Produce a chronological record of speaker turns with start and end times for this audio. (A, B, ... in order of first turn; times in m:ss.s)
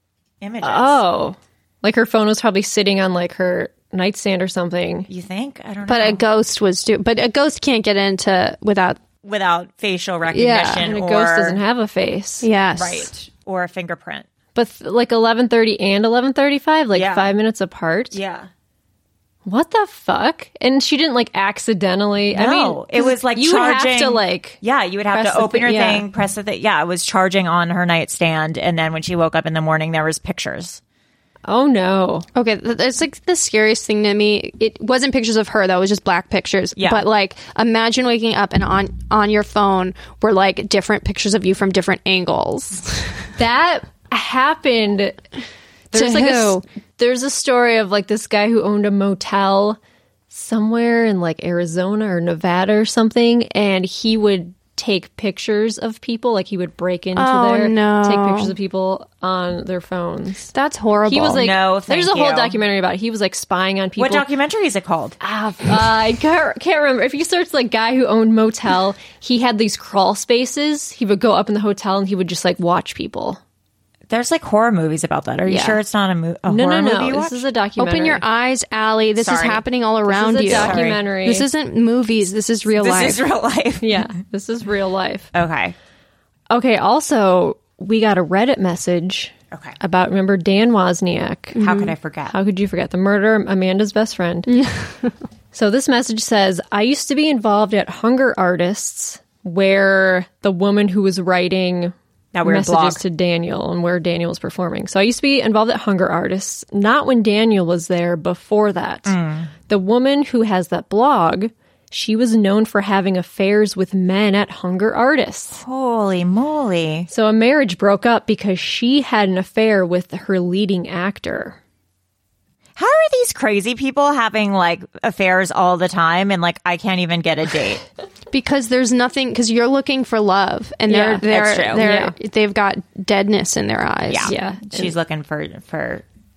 0:00.4-0:01.0 A
0:00.6-0:05.1 B
0:05.1-0:06.2 A
0:05.8-0:09.0 C
0:09.2-0:11.6 A
0:10.3-0:10.9 C
0:10.8-0:12.5 B
0:12.4-0:13.1 C
0:12.7-0:14.3 A
0:14.5-0:18.2 B
0:16.9-0:17.3 A
0:18.1-0:18.5 A
0:19.4-0:26.0 B
0:22.3-0:30.8 A
0:31.4-0:32.2 B
0:32.3-0:43.1 C
0:36.8-0:37.0 A
0:43.4-0:45.2 B
0:45.9-0:49.8 B
0:45.9-0:46.6 C
0:50.3-1:00.5 B
0:57.1-0:58.5 C
1:00.5-1:01.4 C
1:01.1-1:04.2 B
1:01.3-1:02.6 A
1:04.0-1:05.2 A
1:05.2-1:13.4 B
1:14.1-1:17.4 A
1:16.5-1:18.2 B
1:17.8-1:23.2 C
1:19.2-1:19.6 A
1:20.1-1:21.4 B
1:20.5-1:21.0 A
1:22.8-1:24.0 A
1:23.8-1:25.3 B
1:25.3-1:25.7 A
1:26.5-1:34.6 B
1:29.5-1:29.8 A
1:31.6-1:32.3 A
1:34.6-1:35.0 C
1:35.5-1:49.2 B
1:42.3-1:43.0 A
1:49.0-1:49.5 A
1:49.7-1:55.6 B
1:55.6-1:57.1 A
1:57.1-2:01.6 B
2:02.8-2:07.8 A
2:08.3-2:14.3 C
2:10.9-2:11.8 A
2:10.9-2:11.2 B
2:11.8-2:12.1 B
2:14.1-2:16.0 A
2:14.2-2:14.9 B